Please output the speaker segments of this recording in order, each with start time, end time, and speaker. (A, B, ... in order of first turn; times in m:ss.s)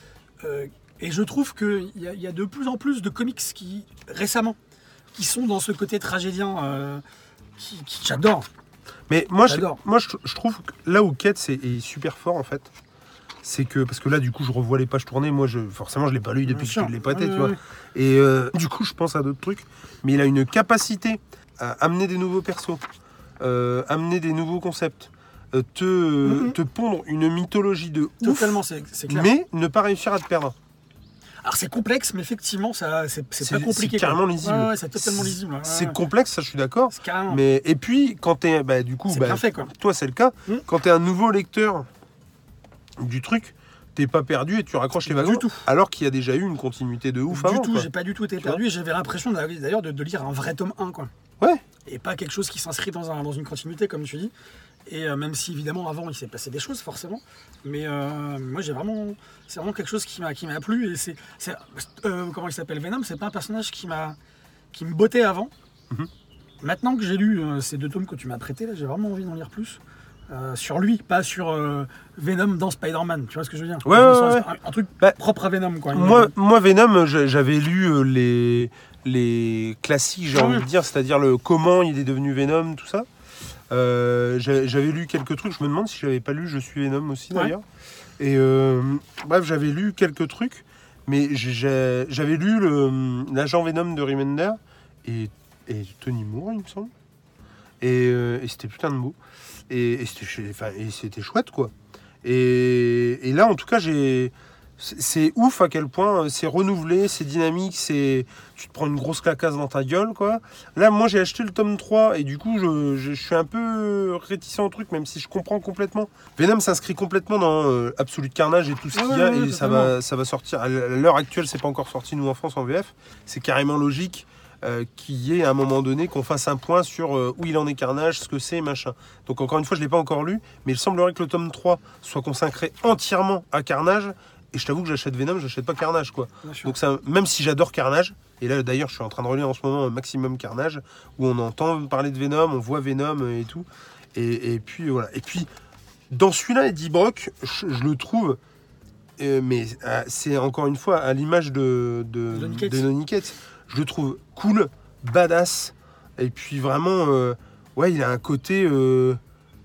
0:00.4-0:04.6 A
0:05.1-0:07.0 A
0:07.6-0:08.5 A
0:09.1-0:12.7 B
0:09.5-0:09.8 A
0:13.4-0:22.8 B
0:16.4-0:17.6 A
0:23.4-0:30.5 B
0:26.2-0:26.6 A
0:28.2-0:29.3 A
0:31.4-0:36.0 A
0:33.4-0:41.9 B
0:36.9-0:37.4 A
0:39.1-0:39.7 A
0:43.0-0:47.9 B
0:45.0-0:45.6 A
0:47.3-0:51.1 A
0:51.8-0:54.3 A
0:54.9-1:04.2 A
1:04.7-1:05.5 A
1:06.6-1:16.3 A
1:13.8-1:14.5 B
1:15.9-1:23.1 B
1:20.3-1:20.7 A
1:23.7-1:27.6 B
1:28.2-1:36.9 B
1:37.8-1:39.2 B
1:39.7-2:25.5 B
1:58.9-1:59.9 A
2:16.4-2:16.7 A
2:26.1-2:28.4 B
2:29.2-2:39.2 B
2:32.3-2:32.9 A